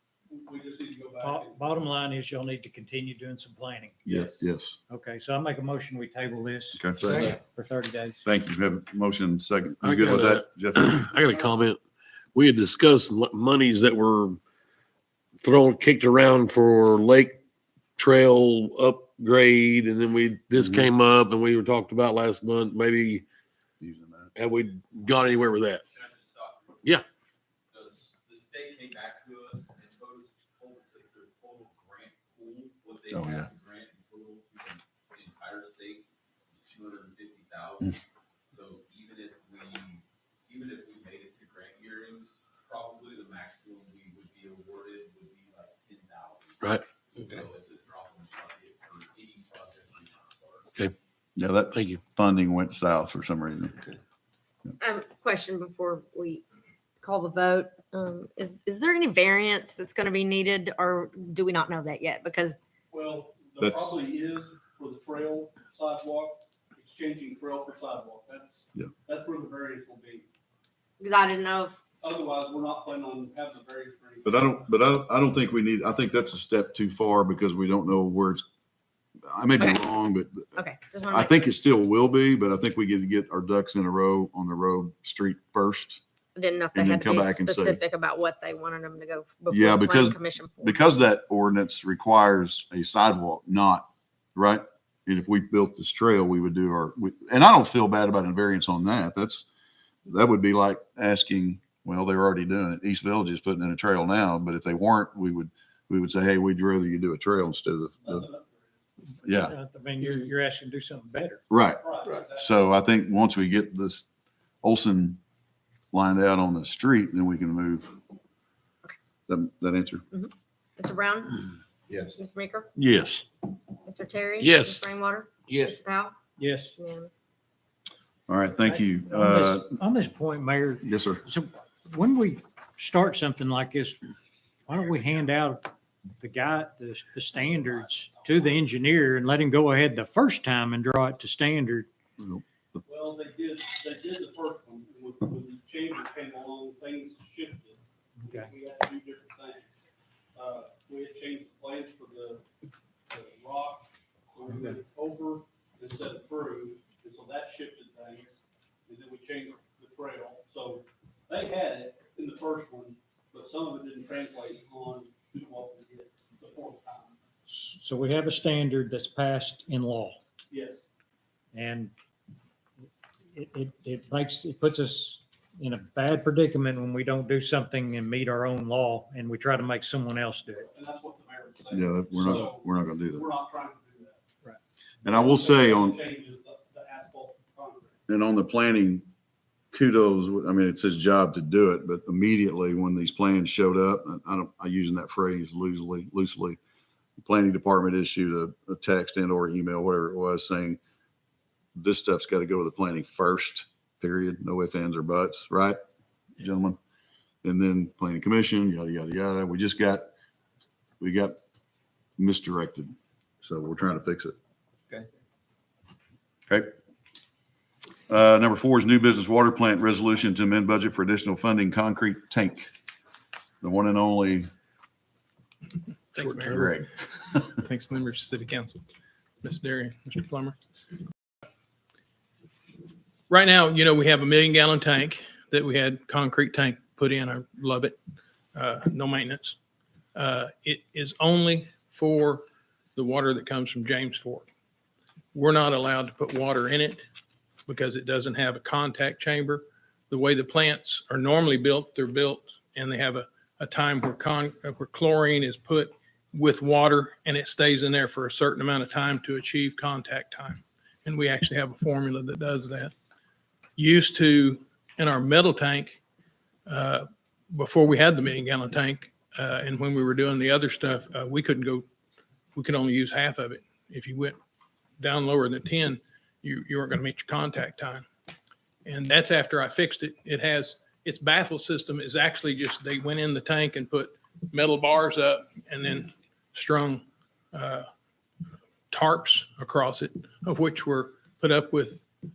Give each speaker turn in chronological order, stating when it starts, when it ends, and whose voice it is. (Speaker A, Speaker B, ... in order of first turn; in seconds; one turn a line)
Speaker A: 0.3-1.6
Speaker B: 1.2-4.0
Speaker A: 4.0-4.4
Speaker C: 4.0-4.8
Speaker B: 4.9-8.2
Speaker C: 6.7-7.4
Speaker C: 8.2-11.0
Speaker D: 9.8-11.8
Speaker D: 12.3-14.4
Speaker D: 15.4-17.4
Speaker D: 18.0-23.2
Speaker C: 20.6-20.9
Speaker C: 23.8-24.3
Speaker D: 24.4-25.8
Speaker E: 25.9-26.8
Speaker E: 27.7-37.9
Speaker C: 33.1-33.5
Speaker E: 38.5-46.6
Speaker E: 47.2-50.6
Speaker C: 51.4-53.8
Speaker D: 51.7-52.0
Speaker F: 54.8-56.4
Speaker F: 57.0-62.6
Speaker A: 62.9-70.3
Speaker C: 63.6-63.9
Speaker F: 71.0-71.8
Speaker A: 72.0-74.5
Speaker C: 74.2-78.4
Speaker C: 79.3-80.6
Speaker F: 80.5-81.3
Speaker C: 81.1-86.0
Speaker F: 86.3-90.7
Speaker C: 86.7-87.8
Speaker C: 89.5-99.5
Speaker C: 100.0-108.2
Speaker A: 108.0-108.8
Speaker C: 109.2-109.5
Speaker B: 109.2-111.4
Speaker C: 111.5-114.0
Speaker A: 111.8-112.6
Speaker C: 114.6-115.2
Speaker C: 115.9-118.0
Speaker C: 119.3-120.0
Speaker F: 120.1-122.7
Speaker D: 122.8-123.2
Speaker F: 123.8-126.1
Speaker D: 124.4-124.8
Speaker B: 126.4-126.7
Speaker F: 126.7-127.1
Speaker C: 128.3-129.7
Speaker B: 128.6-134.0
Speaker C: 130.8-131.2
Speaker B: 134.7-141.9
Speaker C: 142.2-142.8
Speaker A: 142.9-149.7
Speaker B: 148.2-148.5
Speaker A: 150.3-152.4
Speaker A: 153.1-167.2
Speaker B: 154.5-154.8
Speaker B: 167.5-170.2
Speaker A: 170.5-170.8
Speaker B: 171.5-171.9
Speaker B: 173.3-180.7
Speaker A: 180.6-184.2
Speaker C: 181.7-183.2
Speaker C: 185.0-186.0
Speaker A: 185.1-187.9
Speaker C: 188.1-189.1
Speaker C: 189.7-196.6
Speaker C: 197.2-200.8
Speaker C: 201.7-205.8
Speaker C: 206.4-206.8
Speaker C: 207.4-210.1
Speaker C: 211.0-211.4
Speaker C: 212.2-214.3
Speaker C: 218.1-222.7
Speaker C: 223.6-224.5
Speaker G: 226.1-226.7
Speaker C: 226.4-226.9
Speaker G: 227.5-228.8
Speaker G: 229.4-230.6
Speaker G: 233.3-238.0
Speaker G: 238.5-239.6
Speaker G: 240.1-244.4
Speaker G: 245.3-247.1
Speaker G: 247.7-262.9
Speaker G: 263.8-266.0
Speaker G: 266.7-271.9
Speaker G: 272.5-274.4
Speaker G: 275.0-278.0
Speaker G: 278.8-287.9
Speaker G: 288.9-292.0